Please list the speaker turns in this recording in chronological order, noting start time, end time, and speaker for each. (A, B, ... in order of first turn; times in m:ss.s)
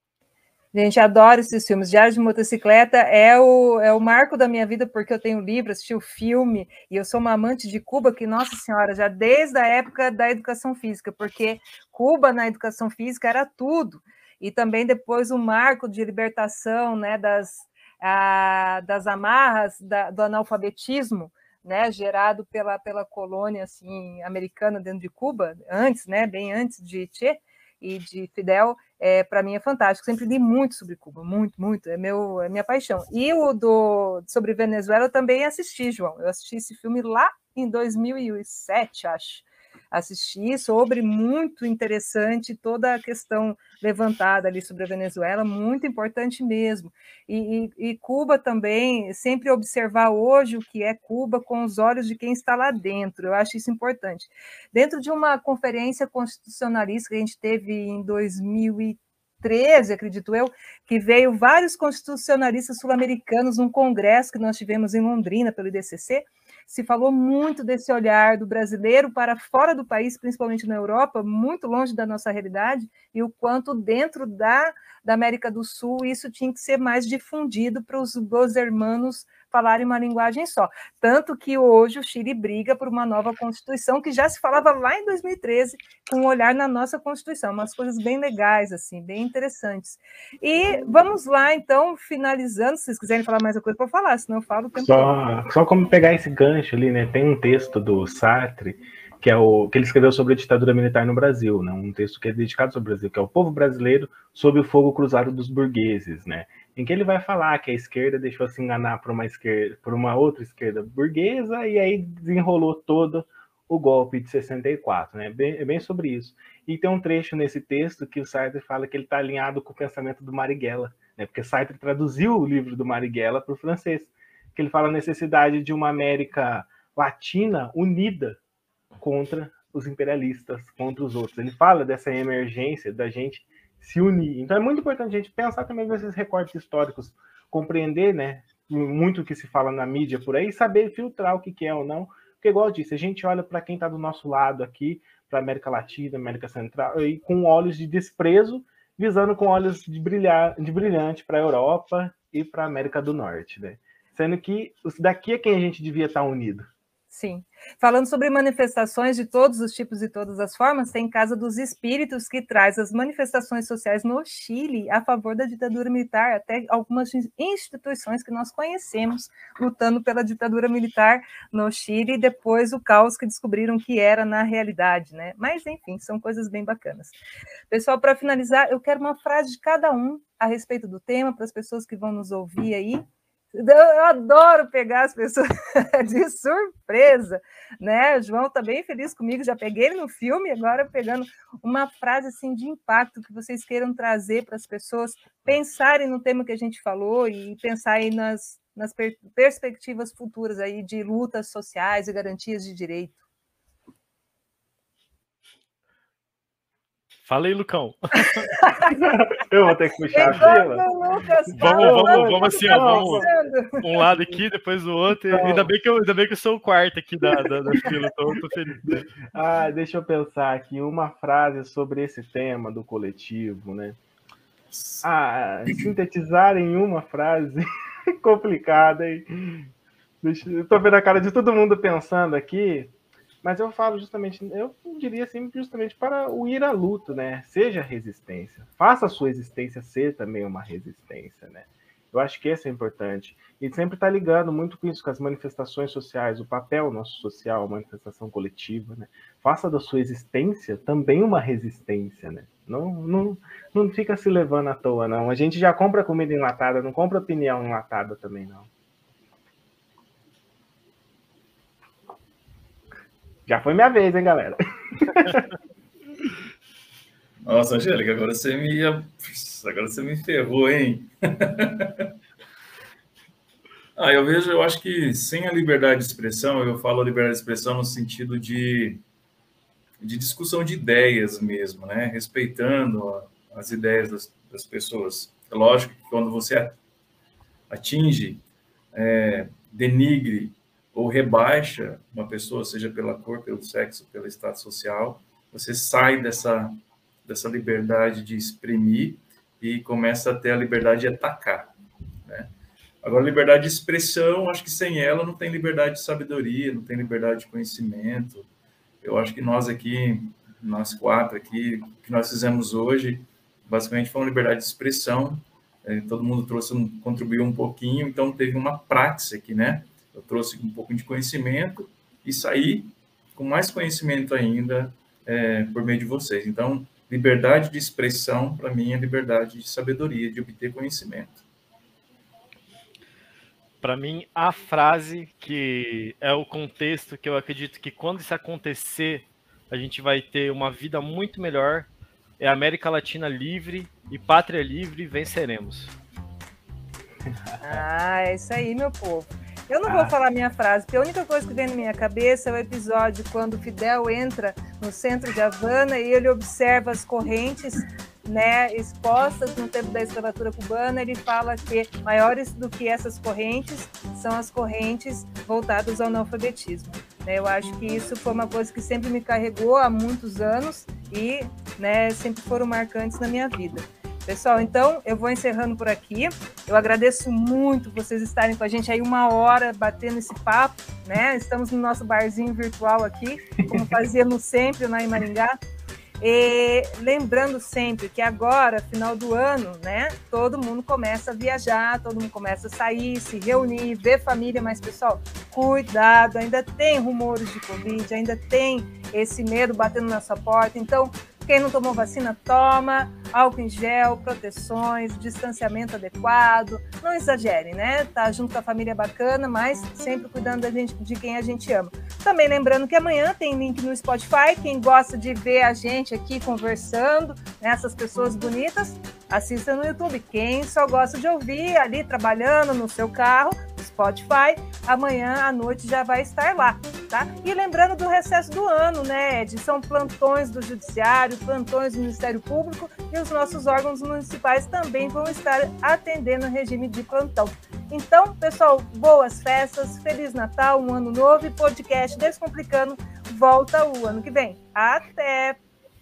0:00.7-1:35.1 A
1:34.8-2:08.4 B
2:09.0-2:36.7 B
2:37.1-2:57.2 A
2:57.7-3:23.2 A
3:27.2-3:28.5 C
3:28.6-3:29.0 A
3:28.9-3:30.8 B
3:30.1-3:34.0 A
3:30.2-3:30.5 C
3:31.5-3:33.3 B
3:31.5-3:33.3 C
3:33.8-3:39.1 C
3:35.3-3:35.7 B
3:38.8-3:44.0 B
3:44.7-3:45.0 D
3:45.0-3:47.6 B
3:48.2-3:49.7 B
3:50.2-3:52.9 B
3:53.4-4:18.7 B
4:23.5-4:25.5 B
4:27.4-4:32.1 D
4:34.0-4:39.0 D
4:40.0-4:46.8 D
4:47.7-4:48.4 D
4:48.9-5:02.5 D
5:03.0-5:08.5 D
5:09.0-5:31.4 D
5:33.8-5:41.9 C
5:42.4-5:45.9 C
5:47.3-5:47.8 B
5:47.6-6:25.5 A
5:49.8-5:50.1 B
6:26.2-7:25.6 A